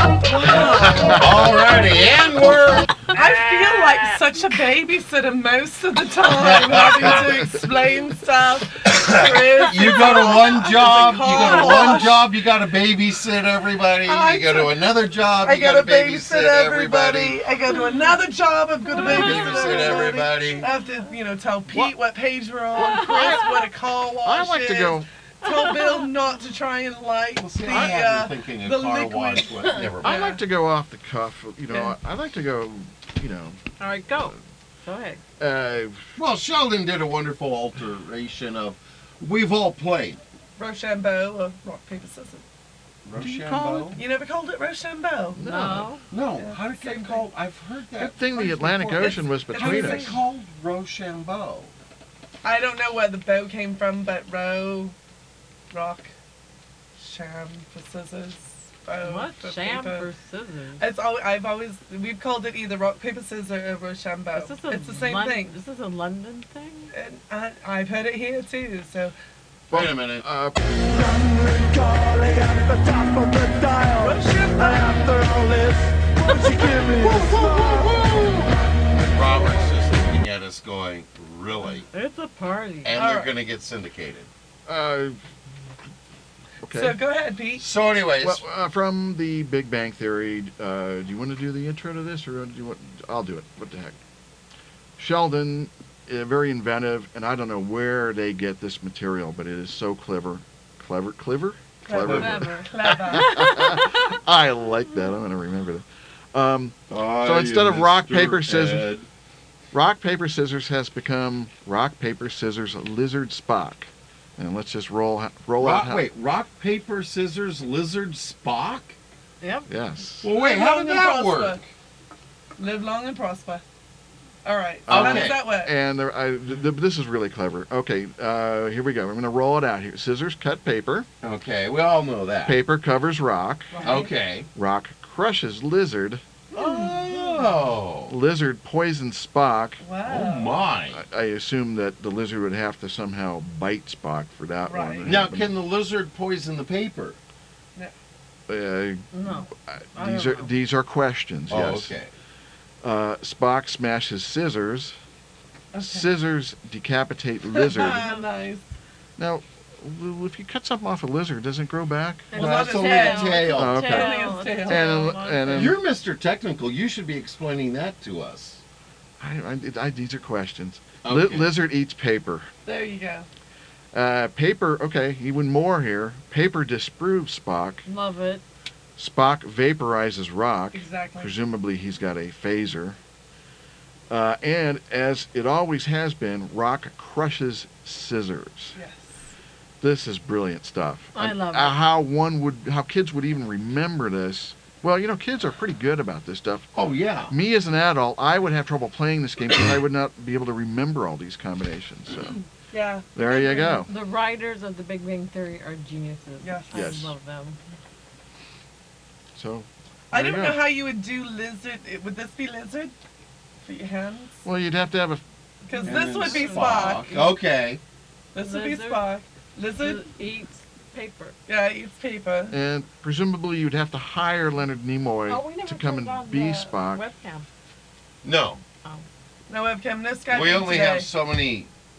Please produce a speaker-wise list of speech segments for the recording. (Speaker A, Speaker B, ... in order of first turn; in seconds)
Speaker A: 0.2-1.3, 3.1-12.2, 14.0-14.8, 15.4-29.7, 31.7-31.9, 40.6-42.4, 44.0-45.4, 46.4-47.3, 48.9-50.2, 52.4-55.0, 55.7-56.1, 57.0-60.1, 60.8-65.5, 66.9-69.1, 74.0-75.1, 82.9-83.3, 86.7-87.6, 101.8-103.3, 120.3-121.6, 122.6-123.6, 124.4-125.7, 133.7-134.1, 136.5-137.4, 139.8-140.6, 144.6-145.1, 155.7-156.1, 157.5-158.7, 162.3-164.9, 172.6-173.3, 180.7-181.3, 188.7-189.3, 202.7-203.9, 206.4-206.9, 210.1-212.9, 213.6-214.4, 215.7-217.1, 218.3-220.0, 221.5-222.6, 229.5-231.1
Speaker B: 0.5-3.2, 6.2-7.2, 8.9-17.4, 19.0-20.7, 27.4-30.3, 36.2-40.2, 43.0-44.0, 46.1-51.7, 69.7-70.3, 77.0-81.9, 82.8-84.3, 87.6-88.4, 102.0-102.3, 106.9-109.1, 115.6-118.9, 120.2-121.6, 124.9-125.4, 131.2-132.6, 133.8-134.5, 136.5-138.1, 140.1-141.0, 145.0-147.2, 151.5-152.1, 162.3-163.8, 165.5-168.6, 171.0-171.5, 196.7-197.3, 215.8-217.8, 228.2-228.6, 230.3-231.7
Speaker C: 0.9-1.5, 7.0-7.7, 21.7-21.9, 22.7-23.6, 24.2-25.1, 27.7-28.0, 30.0-33.6, 35.4-36.1, 43.1-44.0, 45.4-45.9, 48.0-50.2, 69.7-70.5, 84.7-85.2, 86.6-87.0, 88.2-94.0, 95.0-108.9, 109.7-116.1, 119.7-120.3, 124.9-131.1, 132.4-133.9, 134.5-136.2, 138.1-139.8, 140.9-145.5, 148.5-152.0, 152.8-155.0, 155.8-158.1, 159.2-162.3, 163.5-165.8, 169.2-172.5, 173.9-177.8, 179.0-183.0, 184.1-188.8, 189.8-196.7, 197.3-202.4, 203.1-203.9, 206.7-207.1, 209.3-210.7, 214.4-215.2, 222.5-227.0
Speaker D: 11.4-11.8, 18.9-20.2, 23.1-23.4, 25.4-26.1, 33.8-35.2, 45.4-46.0, 59.0-60.8, 64.3-66.9, 81.9-82.9, 102.0-102.7, 103.3-104.1, 119.4-119.7, 133.8-134.1, 149.1-150.5, 162.3-165.8, 177.8-178.4, 191.1-191.8, 203.9-207.6, 215.7-217.4, 218.4-219.1, 219.8-221.3, 225.3-227.5
Speaker E: 70.5-78.4